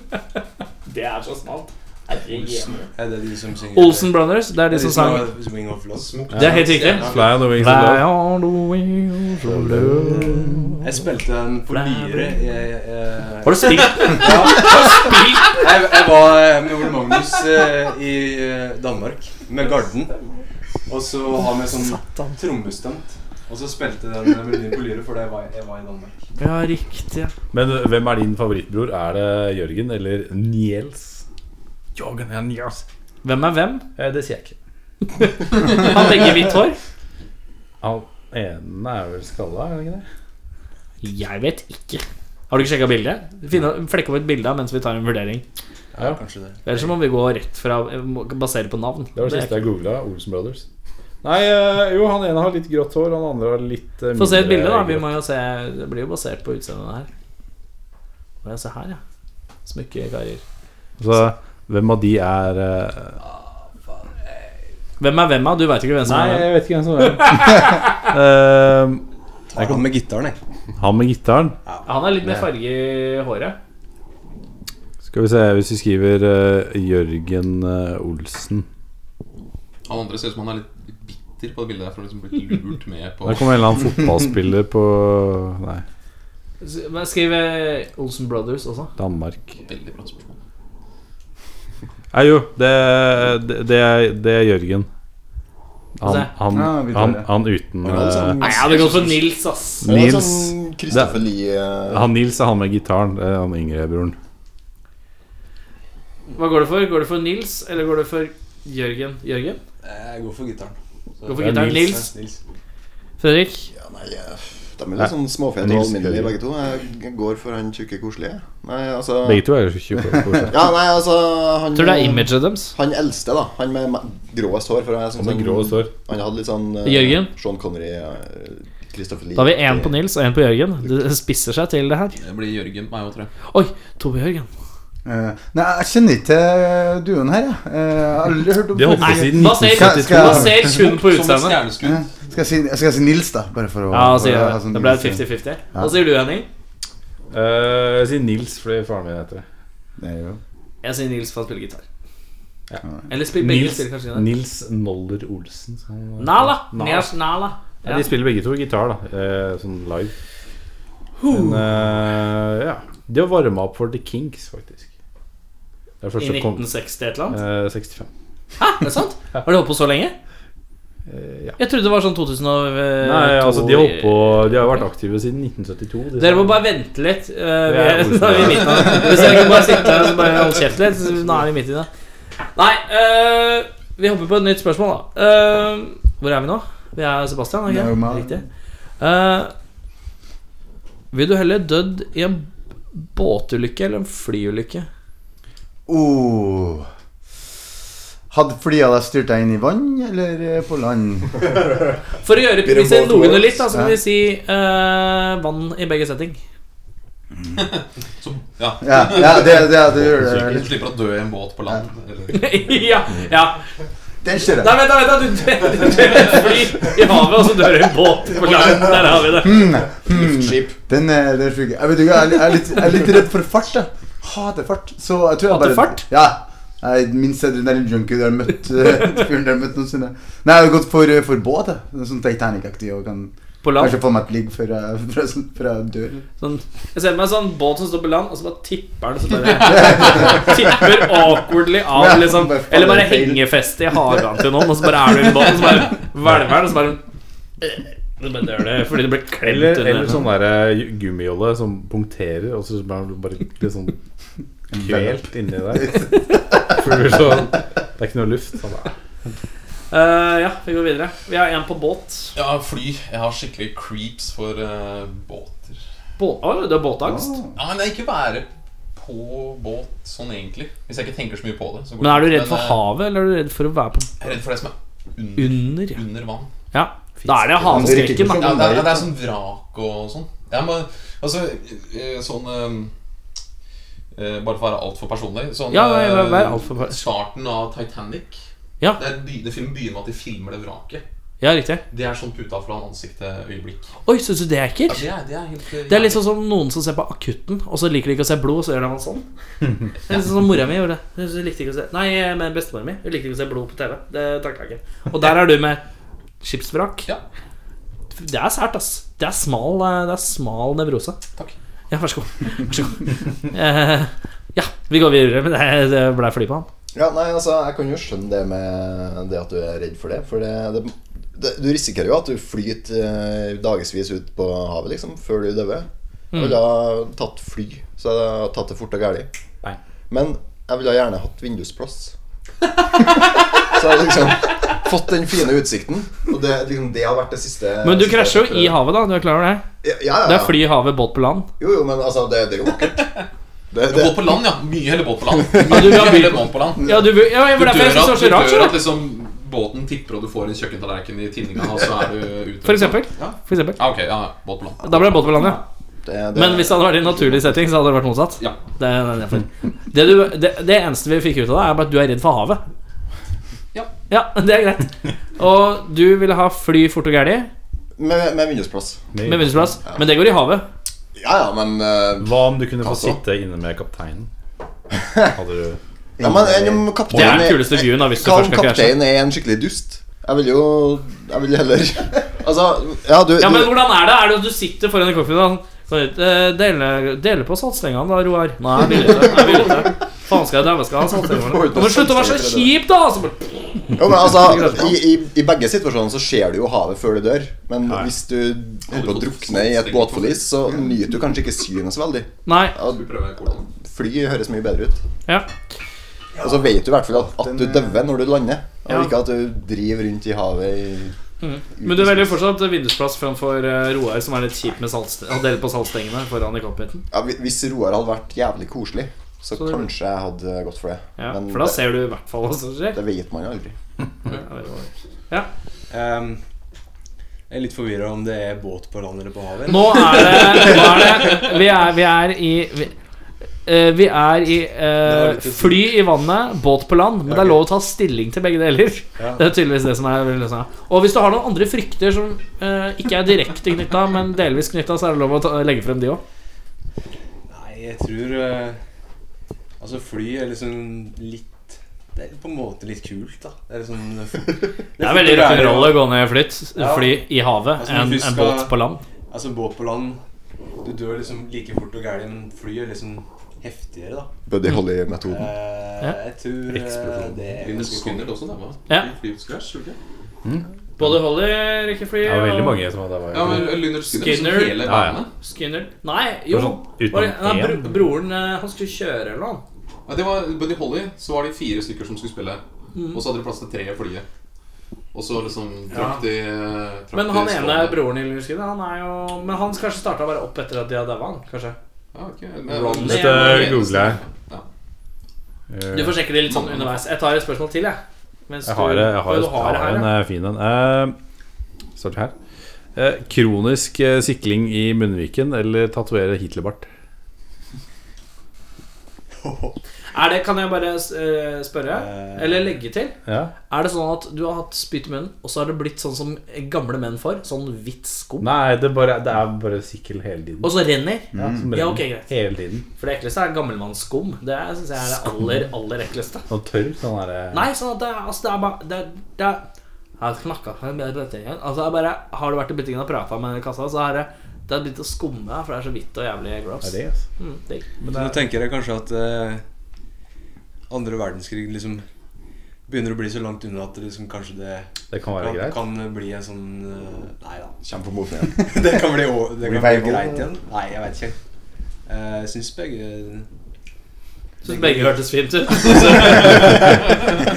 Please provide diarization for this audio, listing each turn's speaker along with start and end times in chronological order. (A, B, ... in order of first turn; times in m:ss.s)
0:00.8-0:02.9 A
0:02.3-0:07.4 B
0:03.7-0:05.3 A
0:06.0-0:07.3 C
0:06.3-0:08.1 D
0:06.4-0:10.8 A
0:09.4-0:10.8 D
0:10.8-0:20.2 B
0:11.7-0:12.4 A
0:13.4-0:15.6 A
0:20.9-0:26.2 B
0:21.7-0:22.3 A
0:26.4-0:27.3 A
0:27.5-0:31.2 D
0:31.9-0:32.8 D
0:33.2-0:33.8 A
0:34.0-0:34.6 D
0:35.1-0:36.8 A
0:37.8-0:40.0 D
0:41.0-0:45.4 A
0:45.9-0:46.8 B
0:46.6-0:49.6 A
0:49.2-0:50.6 D
0:51.2-0:55.1 D
0:54.2-0:57.1 A
0:58.4-0:59.0 A
0:59.6-1:00.4 A
1:01.0-1:03.2 D
1:03.2-1:04.3 B
1:05.0-1:07.9 A
1:06.0-1:09.0 D
1:09.5-1:10.4 B
1:09.6-1:09.8 D
1:10.8-1:11.6 D
1:11.6-1:11.9 B
1:11.8-1:13.6 A
1:15.1-1:18.6 D
1:19.9-1:23.6 C
1:23.2-1:25.8 D
1:26.6-1:28.9 A
1:29.0-1:29.6 D
1:29.6-1:30.4 C
1:32.1-1:34.9 D
1:36.0-1:38.5 D
1:36.0-1:36.3 A
1:36.5-1:37.3 E
1:37.8-1:39.3 F
1:38.4-1:39.9 A
1:39.8-1:41.3 D
1:39.8-1:42.1 F
1:41.8-1:44.2 D
1:46.3-1:49.6 A
1:49.8-1:52.4 B
1:51.2-1:52.1 A
1:51.4-1:52.0 D
1:53.2-1:53.7 A
1:53.7-1:59.5 F
1:55.0-1:56.3 D
1:59.2-2:00.7 D
2:00.5-2:10.0 F
2:01.7-2:02.7 A
2:05.1-2:05.9 D
2:06.8-2:07.3 A
2:09.4-2:12.2 A
2:12.2-2:13.3 C
2:13.5-2:14.5 A
2:15.0-2:20.8 E
2:18.7-2:20.7 D
2:19.0-2:21.6 A
2:20.8-2:22.1 C
2:21.8-2:25.2 E
2:23.9-2:26.5 A
2:27.3-2:29.4 D
2:30.0-2:30.4 E
2:30.8-2:31.8 A
2:32.7-2:37.2 D
2:33.1-2:34.3 A
2:36.2-2:38.1 A
2:37.8-2:40.1 D
2:41.2-2:41.6 A
2:41.3-2:44.9 D
2:46.0-2:46.8 D
2:46.2-2:47.4 A
2:47.3-2:48.1 D
2:48.6-2:50.1 A
2:51.1-2:51.6 D
2:51.6-2:54.6 A
2:53.0-2:56.6 D
2:56.2-3:01.9 A
2:57.6-2:59.6 D
3:02.6-3:08.4 A
3:07.6-3:08.4 E
3:09.0-3:09.5 A
3:11.1-3:14.9 A
3:15.9-3:16.9 E
3:18.3-3:21.6 E
3:22.2-3:26.4 A
3:22.6-3:23.5 F
3:23.7-3:24.0 E
3:27.5-3:32.4 C
3:28.8-3:30.8 E
3:32.3-3:33.6 A
3:34.2-3:34.8 E
3:34.6-3:39.7 A
3:38.4-3:40.8 F
3:39.3-3:56.2 E
3:45.5-3:46.0 A
3:53.6-3:54.0 A
3:56.4-4:07.0 A
3:59.9-4:00.4 E
4:01.9-4:03.5 E
4:07.6-4:10.2 A
4:09.4-4:14.0 D
4:14.7-4:16.1 D
4:14.7-4:15.1 E
4:16.6-4:18.9 D
4:19.9-4:22.3 A
4:22.4-4:25.8 C
4:26.2-4:27.4 A
4:27.0-4:27.5 E
4:27.6-4:32.8 C
4:32.0-4:34.1 A
4:34.2-4:36.5 C
4:35.4-4:36.0 A
4:36.7-4:38.7 A
4:37.2-4:37.5 D
4:37.6-4:39.1 E
4:38.2-4:42.9 C
4:44.1-4:48.4 C
4:45.7-4:47.0 A
4:49.0-4:51.0 C
4:51.4-4:51.8 A
4:51.9-4:53.9 C
4:54.0-4:55.1 A
4:54.9-4:56.2 C
4:55.9-4:59.2 A
5:00.0-5:05.8 A
5:06.4-5:07.0 A
5:08.1-5:11.2 A
5:11.9-5:16.7 A
5:16.9-5:29.3 F
5:26.3-5:26.6 A
5:30.1-5:32.1 F
5:32.9-5:38.8 F
5:37.8-5:39.7 A
5:39.8-5:40.7 F
5:40.2-5:41.5 A
5:41.6-5:43.1 F
5:42.6-5:43.3 C
5:43.7-5:44.4 F
5:43.9-5:53.0 C
5:45.6-5:48.8 A
5:52.6-5:53.8 A
5:53.8-5:55.2 C
5:54.8-5:55.6 A
5:56.0-5:57.5 F
5:56.3-6:02.6 A
6:04.1-6:07.5 A
6:08.0-6:09.0 F
6:09.1-6:09.7 D
6:09.2-6:10.6 A
6:11.2-6:13.2 F
6:12.2-6:14.3 D
6:15.0-6:15.3 F
6:15.3-6:15.8 D
6:16.2-6:16.8 E
6:16.2-6:23.9 F
6:17.1-6:19.0 A
6:17.1-6:17.4 C
6:23.4-6:34.9 A
6:29.2-6:29.7 F
6:31.2-6:32.7 F
6:33.9-6:43.0 F
6:38.9-6:40.5 C
6:42.4-6:42.8 A
6:42.8-6:43.7 C
6:43.6-6:45.0 F
6:46.4-6:51.1 F
6:47.1-6:48.0 E
6:48.9-6:49.1 A
6:51.4-6:57.0 A
6:51.8-6:52.3 F
6:57.1-7:01.8 F
6:59.6-6:59.8 A
7:01.2-7:03.0 A
7:02.9-7:03.8 F
7:04.3-7:05.5 A
7:05.9-7:06.4 B
7:07.5-7:10.8 B
7:09.7-7:12.9 A
7:13.6-7:26.2 A
7:15.0-7:16.0 B
7:17.2-7:17.6 B
7:19.2-7:19.4 B
7:27.5-7:28.8 B
7:29.8-7:36.1 B
7:35.0-7:39.0 A
7:36.7-7:38.8 B
7:39.3-7:40.2 B
7:40.8-7:44.3 B
7:44.5-7:45.5 F
7:45.3-7:48.3 B
7:46.7-7:47.4 D
7:47.6-7:50.0 C
7:50.4-7:51.3 D
7:51.0-7:52.8 A
7:52.2-7:53.8 D
7:53.3-7:55.3 C
7:53.4-7:54.8 A
7:54.8-7:55.2 D
7:55.4-7:59.6 A
7:56.5-7:58.0 D
8:00.0-8:02.6 C
8:02.9-8:03.2 A
8:03.1-8:04.2 C
8:05.1-8:08.0 C
8:05.9-8:06.2 A
8:07.1-8:11.8 A
8:12.1-8:14.6 C
8:12.7-8:13.8 A
8:12.9-8:14.2 D
8:15.7-8:16.2 D
8:15.9-8:20.1 A
8:16.5-8:17.0 C
8:18.6-8:21.1 D
8:22.0-8:22.3 D
8:22.9-8:26.8 D
8:29.4-8:29.8 B
8:30.1-8:33.1 A
8:31.9-8:32.8 B
8:33.2-8:33.5 D
8:33.7-8:38.5 A
8:38.4-8:40.8 D
8:40.6-8:42.3 A
8:41.3-8:41.6 E
8:41.3-8:42.8 D
8:43.0-8:46.4 A
8:46.5-8:47.7 D
8:47.5-8:49.7 A
8:50.2-8:57.9 A
8:56.8-8:57.2 D
8:58.0-8:58.4 D
8:58.0-8:59.6 B
9:00.9-9:02.0 B
9:02.9-9:07.8 B
9:05.1-9:05.8 D
9:07.8-9:08.6 F
9:08.6-9:11.4 B
9:09.6-9:10.4 E
9:12.0-9:13.5 B
9:14.6-9:15.2 B
9:14.6-9:16.6 A
9:15.9-9:16.2 B